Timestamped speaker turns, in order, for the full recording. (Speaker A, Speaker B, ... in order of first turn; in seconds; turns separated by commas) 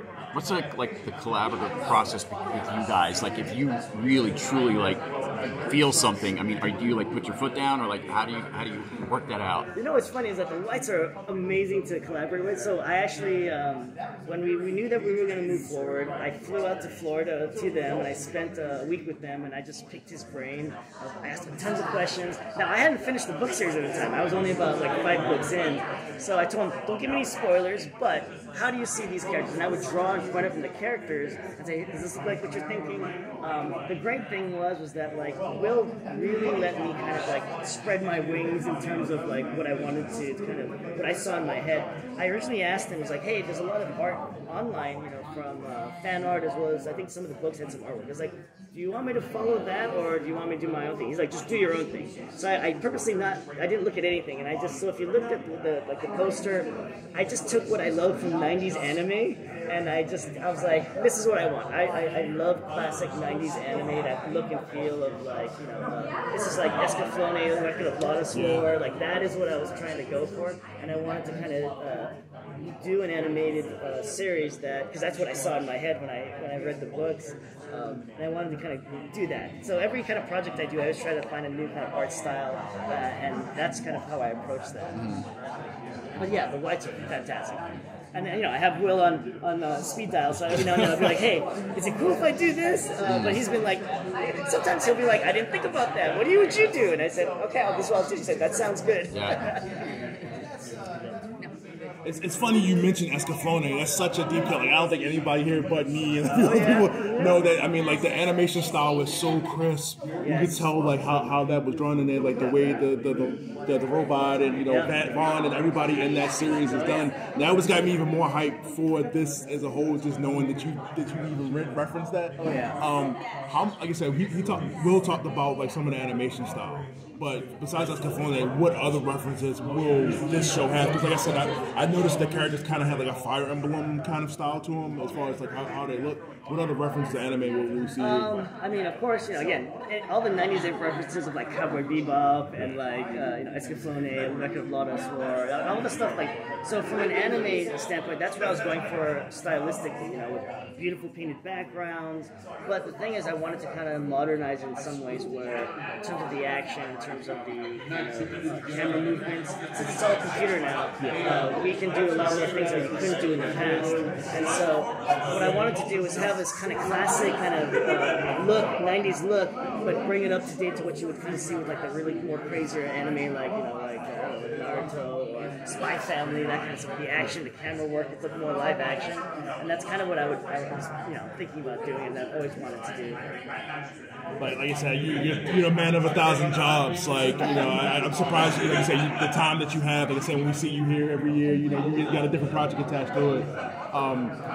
Speaker A: 0.3-9.7, Speaker B: 9.7-85.0, Speaker C: 68.3-68.7, Speaker A: 85.0-85.2, Speaker B: 86.2-99.8, Speaker A: 93.0-93.4, Speaker A: 99.1-99.5, Speaker C: 102.0-138.3, Speaker B: 106.3-107.4, Speaker B: 110.2-110.7, Speaker B: 114.6-114.9, Speaker B: 116.6-117.1, Speaker B: 122.4-122.8, Speaker B: 138.0-183.2, Speaker C: 184.3-194.4